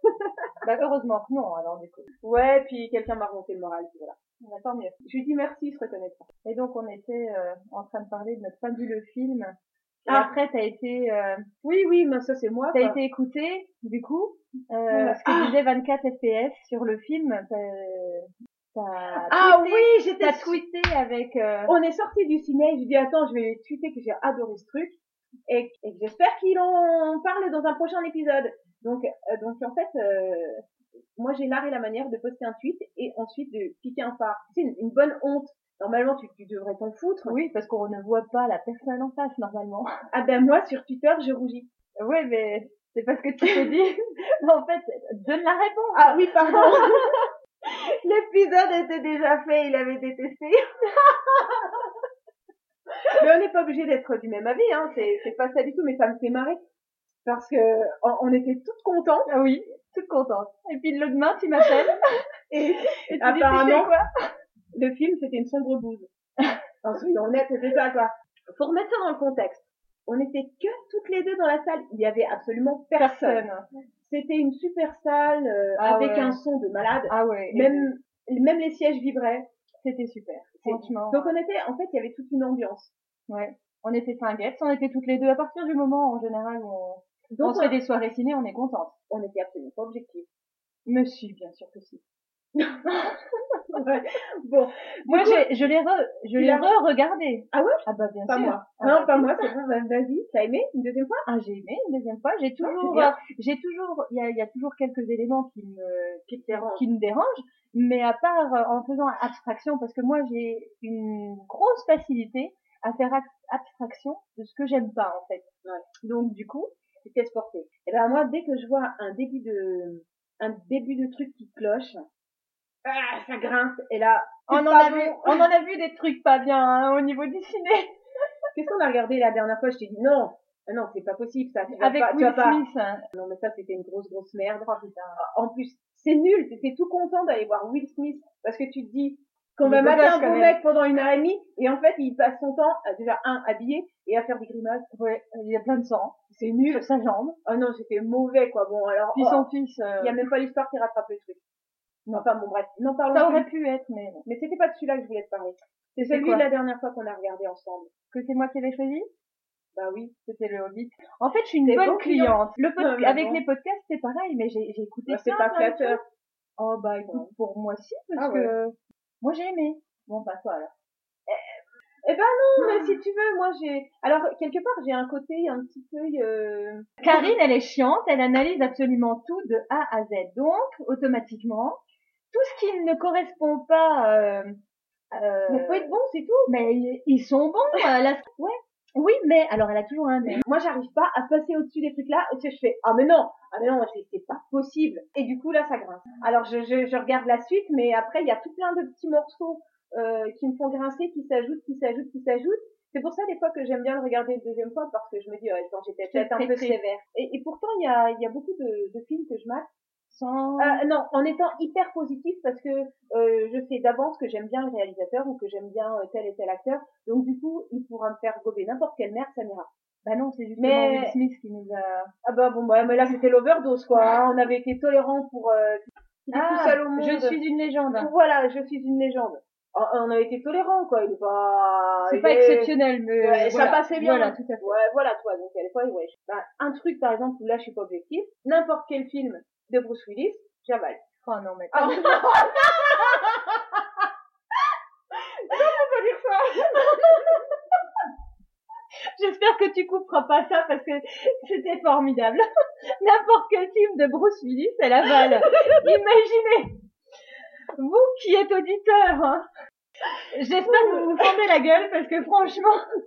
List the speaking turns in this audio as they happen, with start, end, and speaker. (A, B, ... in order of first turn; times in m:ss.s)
0:00.6-0:02.1 A
0:02.2-0:04.2 B
0:04.4-0:04.9 A
0:05.0-0:06.3 B
0:06.4-0:11.4 A
0:10.1-0:10.3 B
0:11.6-0:13.0 B
0:12.7-0:21.7 A
0:14.9-0:15.6 B
0:19.1-0:20.6 B
0:21.7-0:25.0 B
0:25.5-0:30.6 B
0:31.2-0:37.4 B
0:37.2-0:39.9 A
0:40.1-0:41.7 B
0:42.0-0:47.2 A
0:45.9-0:51.7 B
0:53.0-0:56.6 B
0:57.2-0:59.3 B
0:59.3-1:02.0 A
1:02.5-1:03.9 B
1:02.9-1:04.1 A
1:04.7-1:06.1 B
1:06.8-1:13.4 B
1:13.0-1:13.6 A
1:14.0-1:19.5 B
1:15.8-1:16.4 A
1:17.1-1:17.9 A
1:19.8-1:21.4 A
1:20.6-1:22.9 B
1:23.3-1:28.9 A
1:27.3-1:27.8 B
1:29.1-1:30.2 B
1:30.8-1:32.0 A
1:32.8-1:33.1 A
1:33.7-1:35.5 B
1:35.1-1:39.4 A
1:36.4-1:36.7 B
1:37.5-1:41.2 B
1:41.2-1:55.5 A
1:42.6-1:43.2 B
1:46.3-1:46.8 B
1:56.0-1:56.7 A
1:57.0-2:02.0 B
2:02.8-2:05.4 B
2:04.5-2:07.9 A
2:08.5-2:24.9 B
2:11.8-2:13.0 A
2:14.7-2:15.2 A
2:19.6-2:20.6 A
2:24.9-2:27.4 A
2:26.3-2:26.8 B
2:27.4-2:29.5 B
2:29.1-2:30.2 A
2:30.0-2:31.4 B
2:32.1-2:33.4 B
2:33.1-2:34.2 A
2:34.2-2:37.9 B
2:36.0-2:36.5 A
2:38.1-2:39.1 A
2:39.8-2:40.1 B
2:40.2-2:46.0 A
2:41.6-2:43.4 B
2:45.1-2:46.0 B
2:46.6-2:50.7 A
2:48.2-2:48.5 B
2:52.0-2:57.2 B
2:52.6-2:53.0 A
2:57.0-3:01.8 A
3:02.3-3:04.6 A
3:05.1-3:05.9 A
3:05.5-3:06.5 B
3:06.5-3:08.3 A
3:09.0-3:10.4 A
3:10.3-3:29.7 B
3:26.0-3:26.8 A
3:30.1-3:30.8 A
3:30.6-3:39.7 B
3:40.0-3:42.1 A
3:40.6-3:41.2 B
3:42.2-3:47.4 B
3:46.3-3:48.1 A
3:47.9-4:01.0 B
3:52.0-3:54.7 A
4:01.2-4:02.5 A
4:01.7-4:03.6 B
4:05.5-4:06.8 B
4:05.5-4:07.4 A
4:09.1-4:12.4 A
4:13.0-4:16.8 A
4:17.8-4:19.5 A
4:20.3-4:22.8 A
4:20.7-4:21.2 B